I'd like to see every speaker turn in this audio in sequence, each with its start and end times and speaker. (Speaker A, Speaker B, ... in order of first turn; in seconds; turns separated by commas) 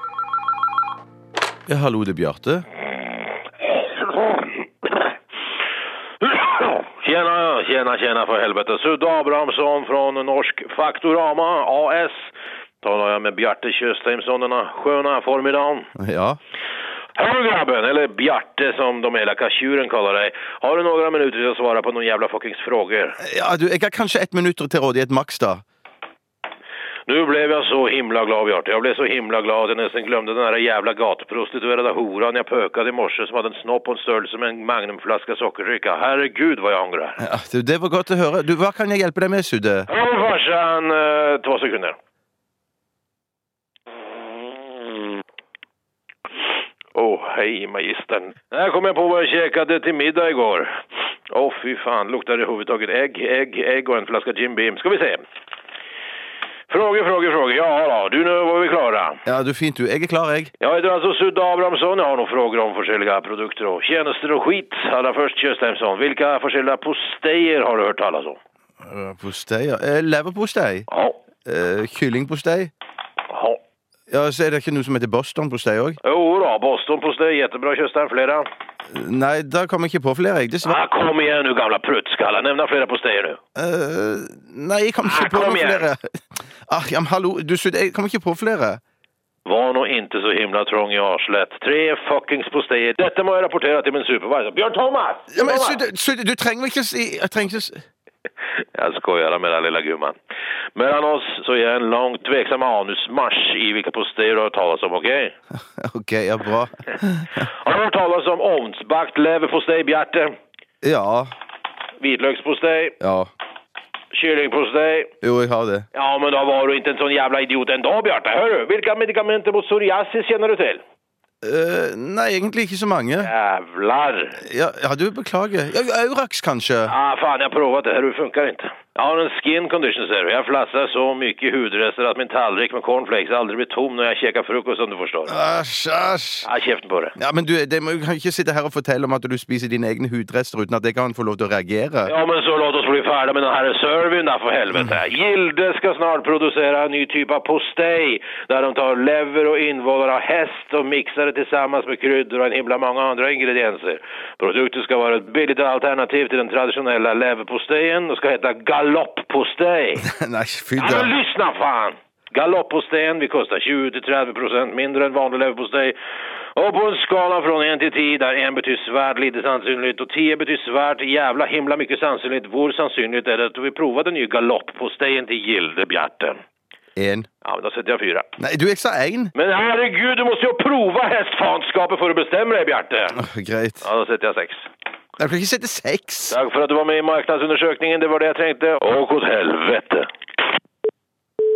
Speaker A: 1.7-2.7, Speaker B: 4.0-5.0, Speaker B: 6.2-12.3, Speaker B: 12.8-15.9, Speaker A: 16.0-16.4, Speaker B: 17.1-23.2, Speaker A: 23.2-25.6, Speaker B: 27.1-37.2, Speaker A: 37.2-39.9, Speaker B: 39.9-42.0, Speaker B: 46.9-50.7, Speaker B: 51.3-55.2, Speaker B: 56.7-59.2, Speaker A: 59.3-60.5, Speaker B: 60.6-68.4, Speaker A: 68.8-70.9, Speaker B: 70.9-71.2, Speaker A: 71.5-72.7, Speaker B: 73.3-73.6, Speaker A: 74.1-76.0, Speaker B: 76.0-78.5, Speaker A: 78.9-80.8, Speaker B: 80.6-83.4, Speaker A: 83.6-86.1, Speaker B: 85.0-85.9, Speaker A: 86.7-88.8, Speaker B: 89.5-95.8, Speaker A: 95.3-97.8, Speaker B: 98.7-100.2, Speaker B: 100.8-105.3, Speaker A: 105.8-107.3, Speaker B: 107.4-110.3, Speaker A: 110.8-111.3, Speaker B: 112.0-113.0, Speaker A: 113.0-113.3, Speaker B: 114.1-115.1, Speaker A: 115.2-115.9, Speaker B: 115.9-120.8, Speaker A: 121.4-123.3, Speaker B: 123.2-124.4, Speaker A: 124.4-127.0, Speaker B: 126.8-135.3, Speaker A: 135.3-136.5, Speaker B: 136.4-137.2, Speaker A: 137.2-142.1, Speaker B: 142.1-160.1, Speaker A: 160.0-161.1, Speaker B: 160.8-166.0, Speaker B: 166.5-176.4, Speaker A: 177.0-177.3, Speaker B: 177.4-178.3, Speaker A: 178.4-179.3, Speaker B: 179.3-183.2, Speaker A: 183.1-183.8, Speaker B: 183.8-184.7, Speaker A: 185.2-186.4, Speaker B: 186.3-190.1